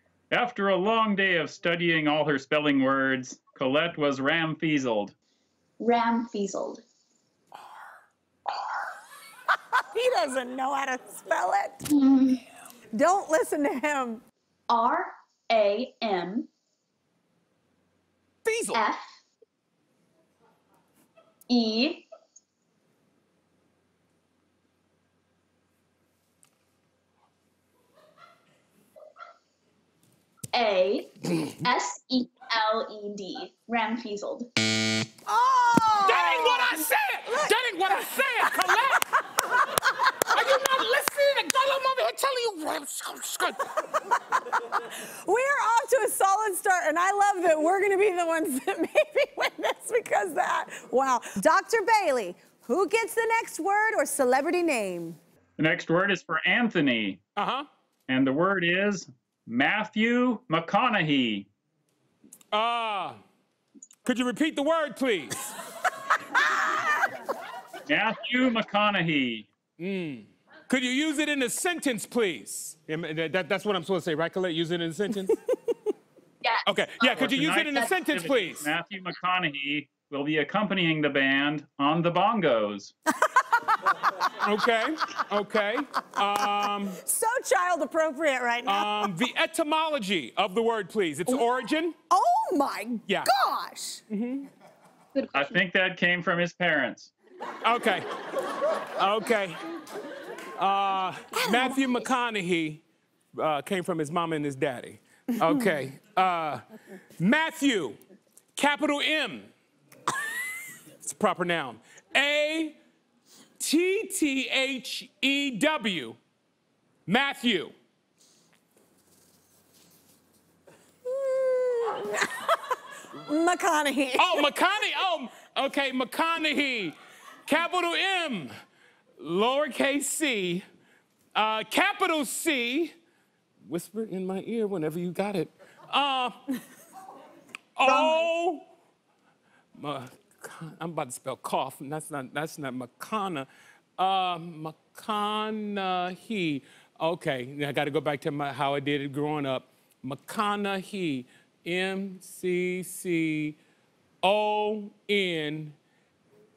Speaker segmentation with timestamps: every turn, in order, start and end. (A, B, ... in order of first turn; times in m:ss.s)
0:00.3-0:05.1 A
0:05.8-0:06.8 B
0:09.8-0:11.9 C
0:12.9-0:14.2 C
0:14.7-0:16.5 B
0:18.4-0:18.8 D
0:18.7-0:19.2 B
0:21.5-0:22.0 B
0:30.5-0:34.5 B
0:35.3-0:39.4 C
0:36.0-0:39.0 D
0:40.3-0:43.6 D
0:43.9-0:55.2 C
0:55.6-0:57.2 A
0:57.4-0:57.7 D
0:58.1-1:01.5 A
1:02.5-1:03.2 D
1:04.0-1:05.5 D
1:06.3-1:07.1 C
1:07.9-1:09.5 A
1:09.8-1:15.4 D
1:16.4-1:17.2 B
1:16.6-1:18.7 D
1:17.1-1:22.9 A
1:23.2-1:24.1 C
1:24.4-1:27.0 D
1:26.4-1:29.2 C
1:28.6-1:31.9 D
1:32.1-1:34.0 C
1:34.1-1:34.5 D
1:35.3-1:37.1 A
1:37.6-1:38.0 D
1:39.0-1:39.6 D
1:40.6-1:42.8 D
1:41.3-1:41.8 C
1:43.4-1:46.6 D
1:47.2-1:48.0 D
1:48.6-1:49.5 D
1:51.0-1:52.8 D
1:53.6-1:56.2 D
1:57.1-1:57.7 D
2:01.0-2:04.8 C
2:04.2-2:08.5 D
2:09.2-2:10.6 D
2:11.3-2:12.9 D
2:13.6-2:16.4 D
2:17.8-2:18.7 D
2:17.9-2:18.2 C
2:19.8-2:33.6 D
2:34.2-2:35.8 D